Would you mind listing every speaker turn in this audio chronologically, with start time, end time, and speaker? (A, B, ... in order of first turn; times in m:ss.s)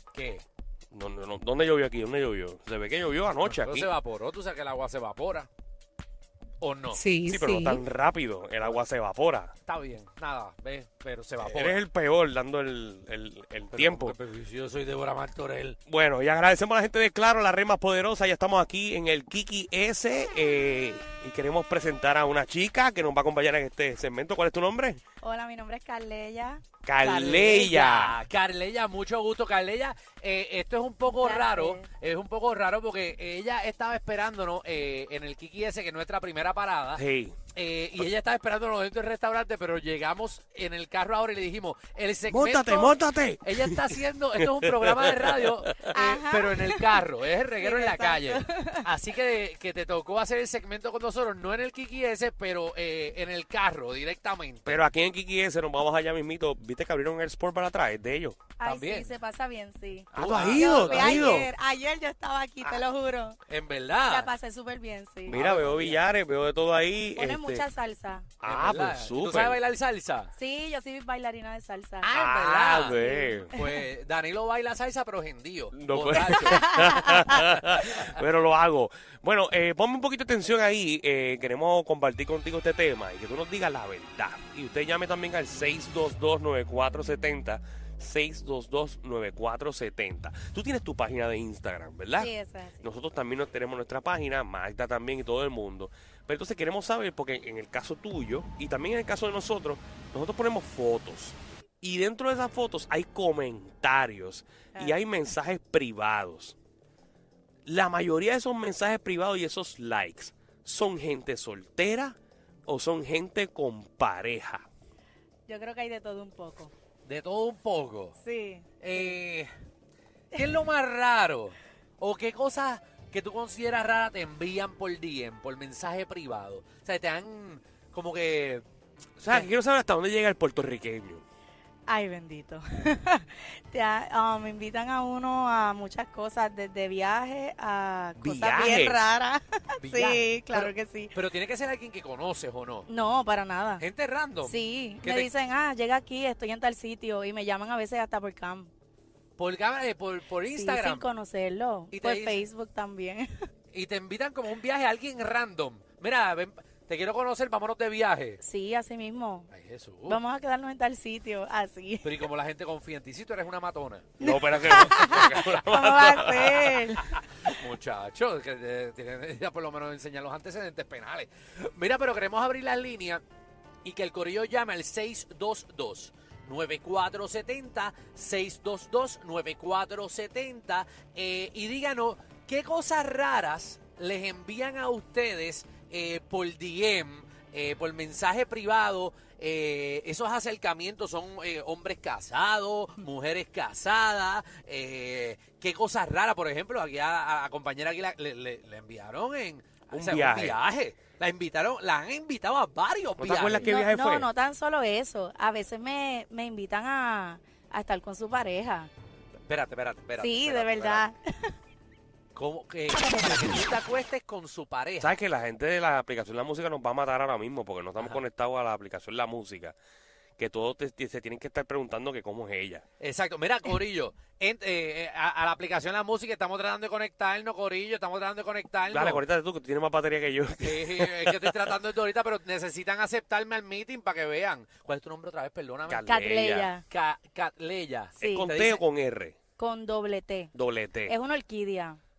0:00.1-0:00.4 A
0:00.9-0:03.9 B
0:03.4-0:05.5 A
0:06.6-0:07.0 A
0:06.9-0:07.8 C
0:07.2-0:09.5 B
0:09.6-0:11.8 A
0:11.4-0:14.2 B
0:13.7-0:15.8 A
0:15.9-0:25.0 B
0:25.2-0:27.6 C
0:26.8-0:28.2 B
0:27.1-0:37.0 A
0:31.0-0:31.8 C
0:37.0-0:37.4 B
0:37.5-0:54.7 A
0:42.3-0:46.0 B
0:45.9-0:46.9 C
0:47.6-0:48.9 C
0:54.6-0:58.4 B
0:58.6-1:03.4 C
0:58.6-0:59.1 A
1:00.1-1:01.5 A
1:00.2-1:01.5 B
1:03.5-1:04.3 A
1:04.0-1:05.4 C
1:05.3-1:07.6 B
1:05.3-1:06.0 A
1:07.2-1:08.3 C
1:08.4-1:09.6 B
1:08.4-1:10.3 A
1:10.4-1:12.1 C
1:12.0-1:13.0 A
1:12.1-1:13.5 B
1:13.0-1:13.8 C
1:13.5-1:16.6 A
1:15.8-1:46.5 B
1:16.4-1:17.6 C
1:32.2-1:32.8 C
1:44.7-1:45.0 C
1:47.6-1:52.2 B
1:52.7-1:54.6 B
1:55.5-1:56.7 C
1:57.0-1:58.1 A
1:58.2-1:59.2 C
1:58.8-1:59.5 A
2:00.4-2:08.6 A
2:09.2-2:09.5 A
2:09.2-2:11.2 B
2:11.9-2:21.1 C
2:18.2-2:19.0 B
2:19.8-2:22.9 A
2:22.9-2:23.8 C
2:23.8-2:25.3 A
2:24.4-2:28.7 C
2:29.4-2:31.0 A
2:30.5-2:33.3 C
2:31.9-2:32.4 A
2:33.7-2:38.4 A
2:38.4-2:39.5 C
2:39.5-2:40.2 A
2:40.1-2:42.1 C
2:42.0-2:45.6 A
2:44.2-2:47.0 C
2:44.2-2:46.8 B
2:47.4-2:53.2 A
2:53.8-3:23.7 A
3:19.9-3:20.6 B
3:23.2-3:24.3 B
3:23.6-3:28.9 C
3:29.5-3:31.0 A
3:30.2-3:31.5 C
3:32.3-3:35.1 A
3:35.0-3:39.8 B
3:40.4-3:42.8 B
3:43.0-3:49.2 A
3:48.9-3:51.5 B
3:50.6-3:56.0 A
3:55.9-3:56.7 B
3:56.0-3:56.8 C
3:56.9-3:58.8 A
3:58.2-3:59.4 B
3:59.6-4:00.5 C
4:00.5-4:01.1 B
4:01.0-4:02.0 C